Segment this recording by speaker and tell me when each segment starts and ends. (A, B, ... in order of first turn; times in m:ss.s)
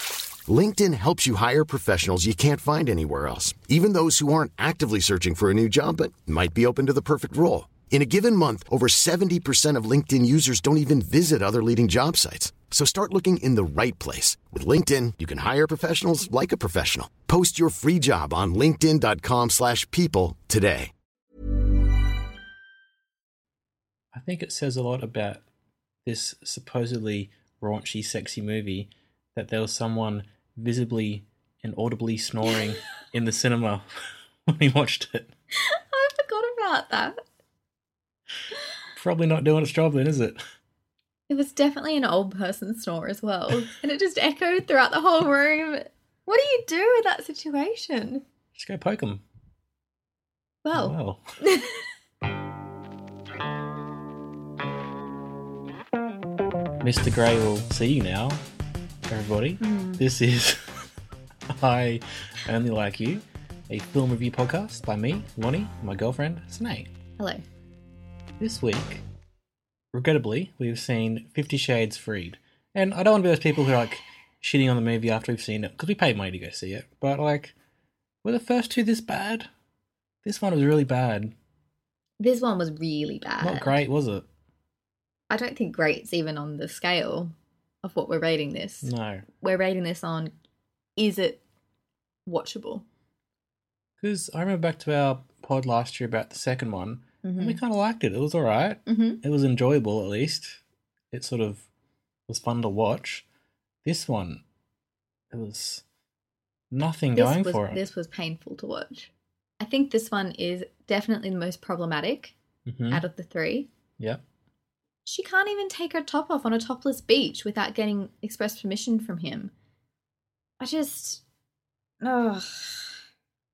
0:00.5-0:20.9 A
0:24.1-0:25.4 B
0:26.1-0:33.9 B
0:34.5-0:35.3 B
0:35.6-0:37.2 C
0:39.0-0:40.4 B
0:41.3-0:48.2 C
0:48.6-0:49.2 B
0:50.6-0:51.8 C
0:50.7-0:51.2 B
0:56.8-0:58.4 B
0:59.1-1:00.6 B
0:59.6-1:00.0 C
1:01.5-1:06.9 B
1:07.2-1:07.4 C
1:08.4-1:09.0 B
1:09.9-1:17.6 B
1:18.2-1:19.5 B
1:20.2-1:21.3 B
1:22.2-1:23.8 C
1:23.4-1:24.3 B
1:25.3-1:27.3 C
1:27.8-1:30.3 C
1:28.8-1:29.3 B
1:31.0-1:31.4 C
1:32.3-1:32.8 C
1:34.0-1:40.6 B
1:37.2-1:37.6 C
1:38.9-1:39.2 C
1:41.1-1:41.7 B
1:42.3-1:43.2 B
1:43.8-1:44.4 B
1:45.3-1:45.8 B
1:46.7-1:47.8 B
1:47.2-1:52.4 C
1:52.7-1:53.0 B
1:52.9-1:53.7 C
1:55.0-1:59.5 C
2:00.6-2:01.2 C
2:02.0-2:03.0 C